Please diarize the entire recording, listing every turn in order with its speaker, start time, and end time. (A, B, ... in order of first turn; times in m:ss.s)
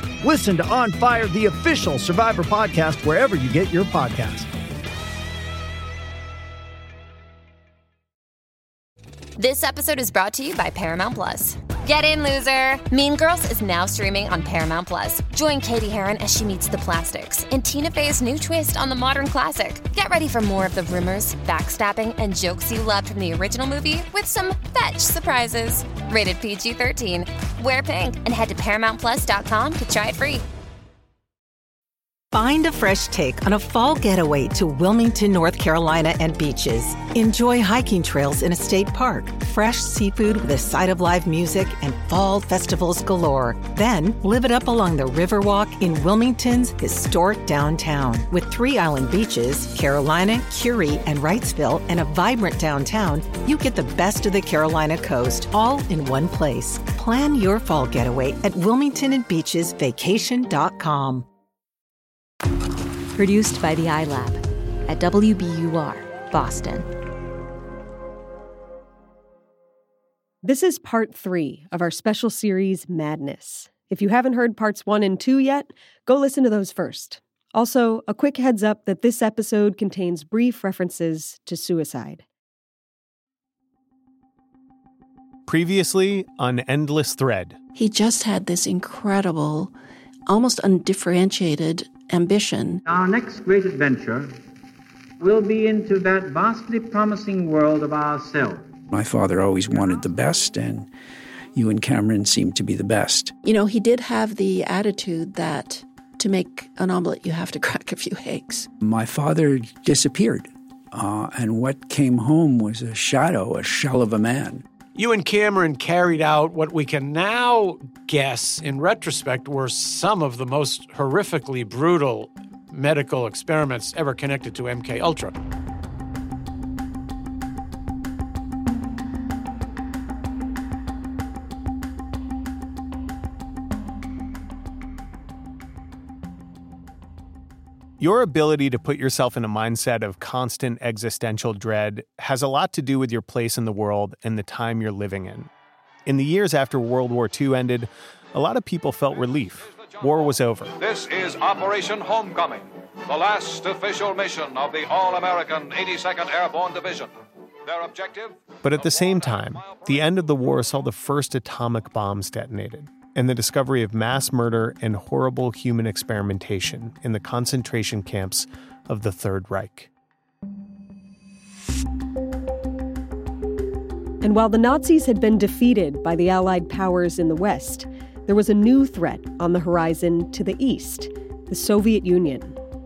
0:00.2-0:04.5 A
0:09.4-0:30.4 B
0:32.3-1:01.2 C
1:03.2-1:06.8 D
1:10.4-1:22.2 E
1:25.4-1:27.6 F
1:27.8-1:29.7 G
1:30.3-1:32.8 G
1:32.8-1:34.4 H
1:35.2-1:38.7 H
1:38.9-1:40.9 I
1:41.5-1:43.4 I
1:43.4-1:48.7 G
1:48.8-1:54.6 I
1:54.9-2:05.3 J
2:18.0-2:25.5 F
2:26.0-2:30.7 F
2:30.8-2:37.1 K
2:37.7-2:38.3 K
2:38.6-2:49.9 F
2:54.2-3:02.5 E